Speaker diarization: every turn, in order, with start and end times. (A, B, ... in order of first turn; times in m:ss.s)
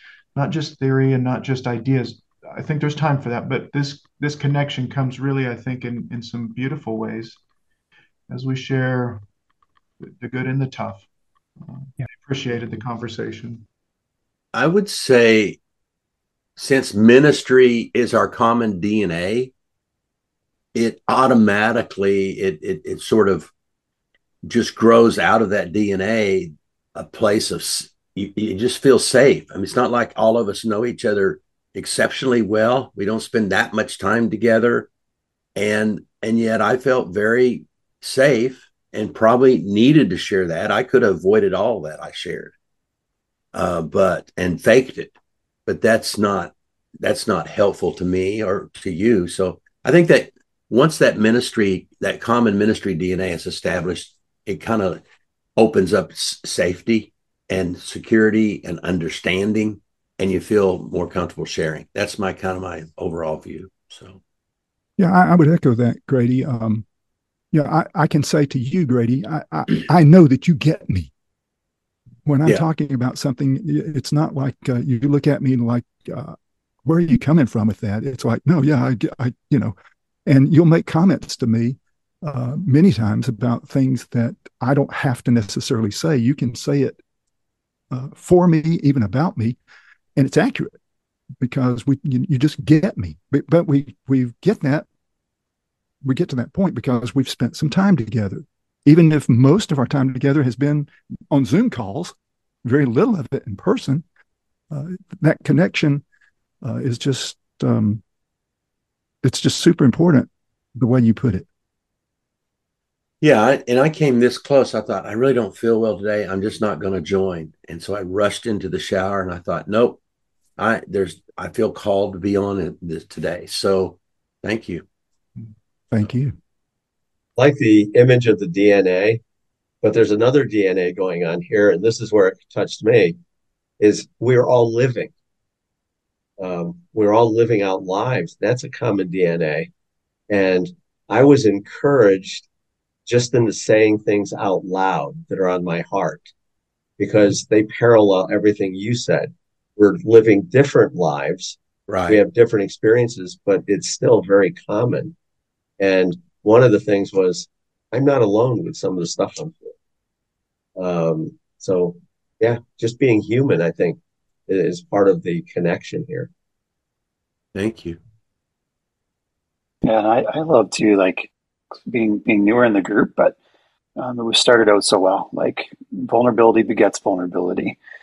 0:00.4-0:07.4 A
0:08.3-0:09.2 A
0:10.2-0:11.0 A
0:11.7-0:13.6 A
0:14.5-0:15.6 B
0:16.6-0:19.5 B
0:20.8-0:23.5 B
0:24.5-0:34.9 B
0:35.6-0:42.5 B
0:43.5-0:45.1 B
0:45.7-0:55.0 B
0:55.6-1:04.2 B
1:05.0-1:06.8 C
1:07.5-1:11.1 C
1:12.2-1:19.8 C
1:20.3-1:27.0 C
1:27.9-1:29.6 C
1:30.2-1:30.8 C
1:31.4-1:34.9 C
1:36.0-1:42.1 C
1:42.6-1:44.0 C
1:44.7-1:46.0 C
1:46.6-1:48.0 C
1:49.2-1:51.5 C
1:53.2-2:00.0 B
2:00.6-2:04.8 B
2:05.9-2:06.4 C
2:07.4-2:09.2 D
2:09.8-2:13.2 D
2:13.8-2:15.1 D
2:16.4-2:19.7 D
2:20.3-2:22.5 D
2:23.1-2:26.3 D
2:27.0-2:35.2 D
2:31.9-2:32.2 B
2:35.8-2:39.7 D
2:40.8-2:46.3 D
2:47.6-2:48.0 B
2:49.8-2:51.3 E
2:51.9-2:53.4 E
2:54.0-2:57.8 E